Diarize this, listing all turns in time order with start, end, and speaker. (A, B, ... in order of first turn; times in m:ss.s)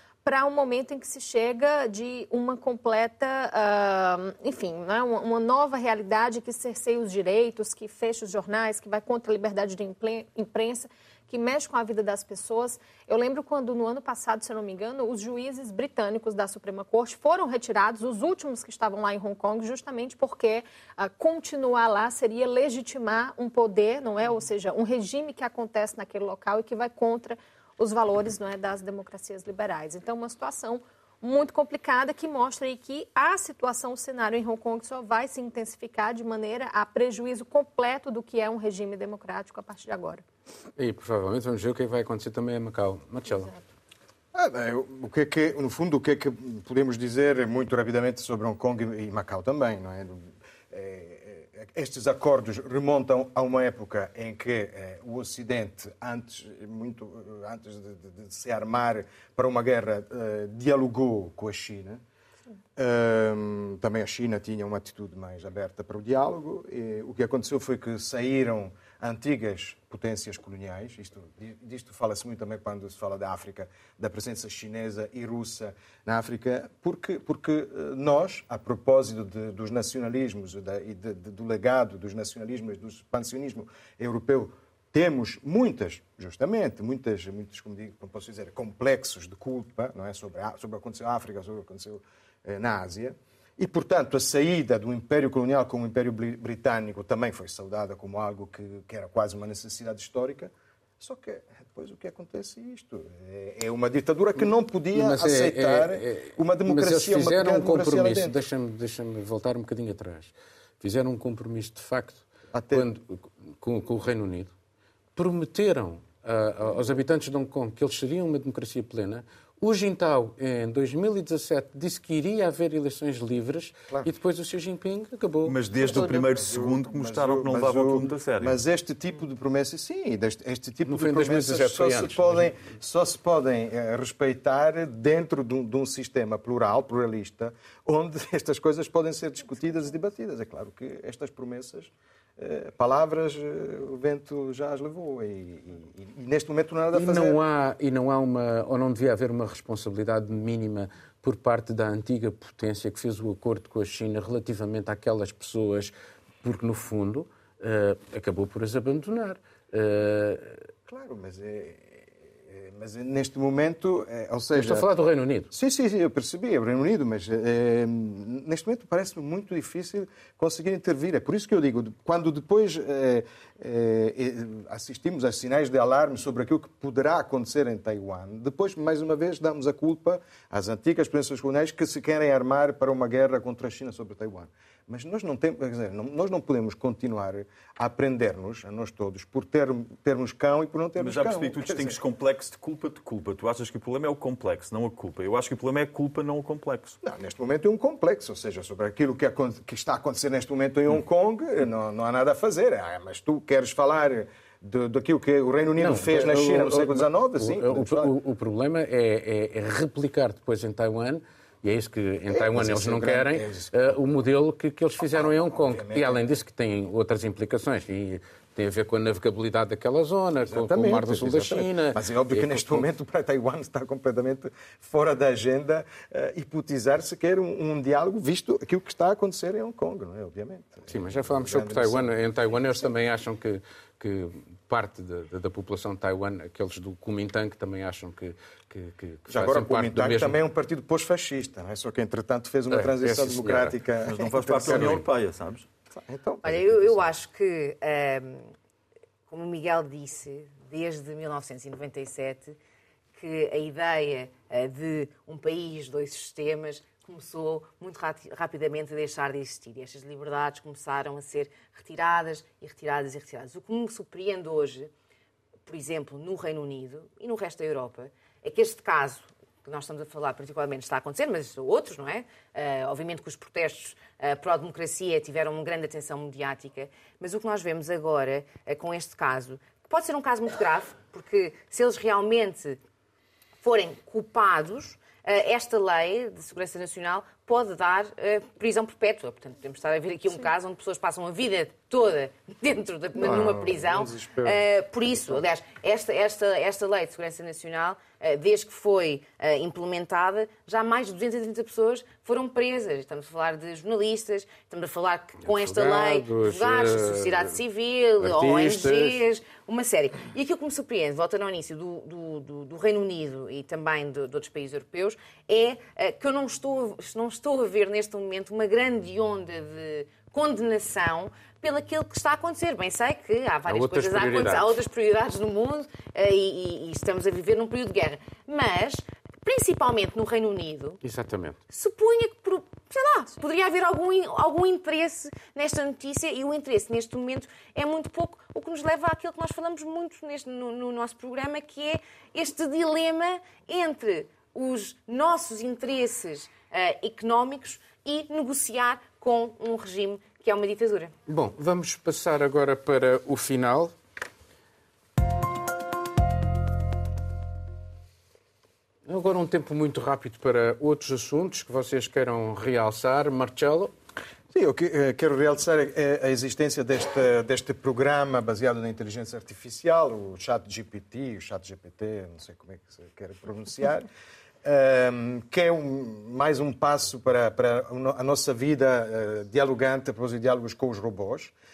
0:00.2-0:40.2 A
0:40.8-0:43.6 B
0:44.3-1:02.0 C
1:02.8-1:48.4 C
1:44.9-1:54.5 B
1:52.5-1:52.9 C
1:55.2-2:06.2 B
2:05.4-2:08.6 D
2:06.1-2:27.4 C
2:10.8-2:12.5 B
2:26.9-2:40.6 B
2:40.9-2:44.9 C
2:44.6-2:45.5 B
2:45.5-3:12.0 C
3:11.0-3:17.0 D
3:17.0-3:28.2 C
3:25.8-3:42.8 B
3:32.3-3:33.7 C
3:35.0-3:36.2 C
3:40.5-3:52.1 C
3:50.9-4:00.4 B
3:59.3-4:05.0 C
4:02.7-4:03.8 B
4:04.1-4:05.7 D
4:04.7-4:05.0 B
4:06.0-4:07.1 C
4:06.4-4:08.5 E
4:09.3-4:12.6 E
4:13.2-4:24.9 E
4:25.7-4:42.8 E
4:43.6-5:31.0 E
4:53.2-4:54.6 C
5:05.4-5:07.6 B
5:08.2-5:09.2 B
5:23.7-5:24.7 B
5:31.0-5:31.6 B
5:31.7-5:51.1 E
5:51.3-5:53.9 B
5:59.1-6:03.9 B
6:04.5-6:14.1 C
6:14.6-6:21.5 C